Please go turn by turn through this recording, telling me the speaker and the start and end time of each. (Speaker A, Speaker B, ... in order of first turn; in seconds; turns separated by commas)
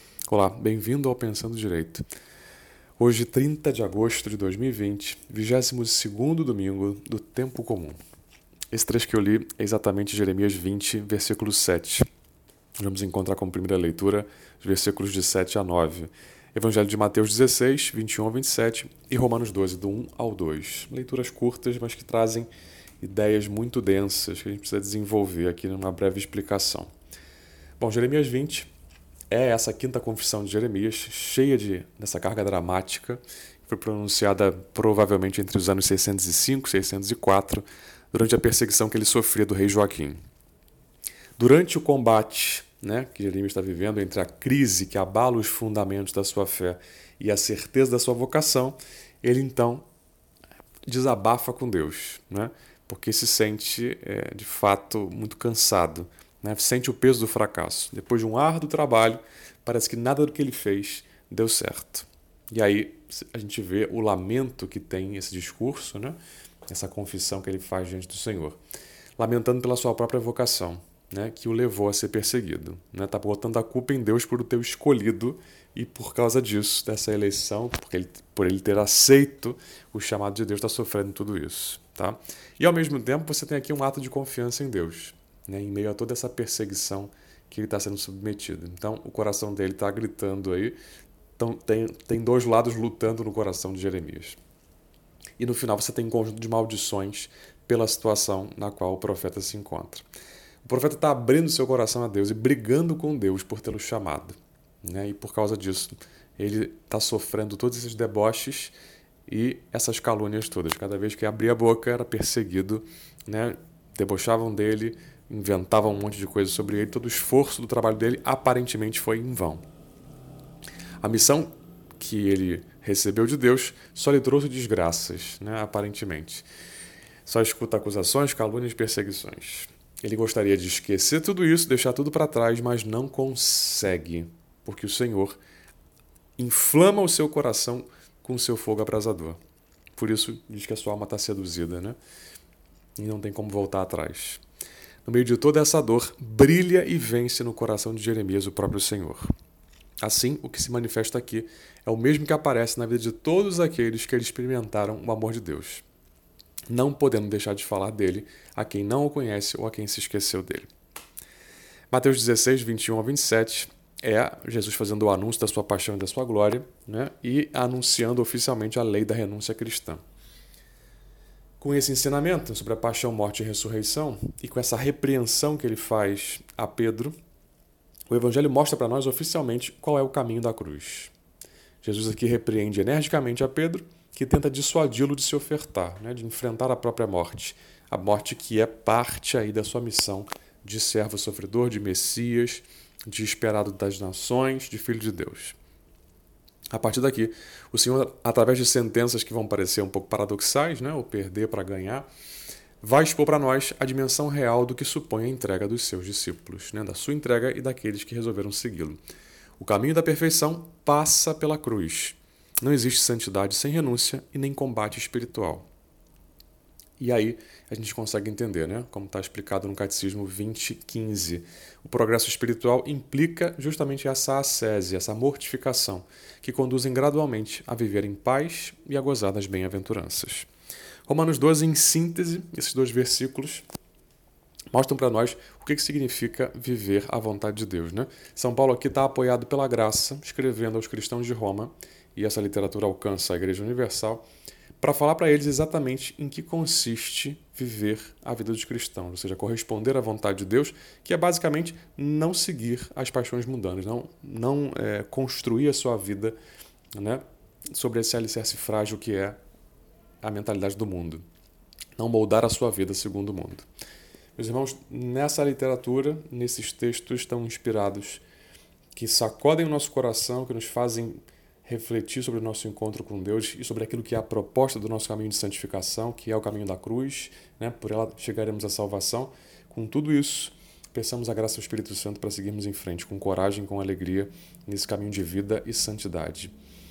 Speaker A: 0.3-2.0, Speaker A: 3.0-8.0, Speaker A: 8.7-12.1, Speaker A: 12.8-22.5, Speaker A: 23.0-26.9, Speaker A: 27.8-28.7, Speaker A: 29.3-40.2, Speaker A: 41.4-49.9, Speaker A: 50.9-68.6, Speaker A: 69.2-90.8, Speaker A: 91.4-94.4, Speaker A: 95.4-100.0, Speaker A: 100.6-108.7, Speaker A: 109.3-119.6, Speaker A: 121.0-126.5, Speaker A: 127.3-135.4, Speaker A: 136.4-139.4, Speaker A: 140.0-142.0, Speaker A: 143.0-144.4, Speaker A: 145.1-149.3, Speaker A: 150.0-155.8, Speaker A: 156.7-160.7, Speaker A: 161.9-170.0, Speaker A: 171.6-177.1, Speaker A: 178.1-181.1, Speaker A: 181.8-195.6, Speaker A: 196.7-202.1, Speaker A: 202.8-209.0, Speaker A: 209.6-215.7, Speaker A: 217.0-230.5, Speaker A: 231.1-233.7, Speaker A: 234.7-244.3, Speaker A: 244.8-256.4, Speaker A: 257.0-259.4, Speaker A: 260.2-261.2, Speaker A: 262.0-263.7, Speaker A: 264.4-268.2, Speaker A: 268.9-286.5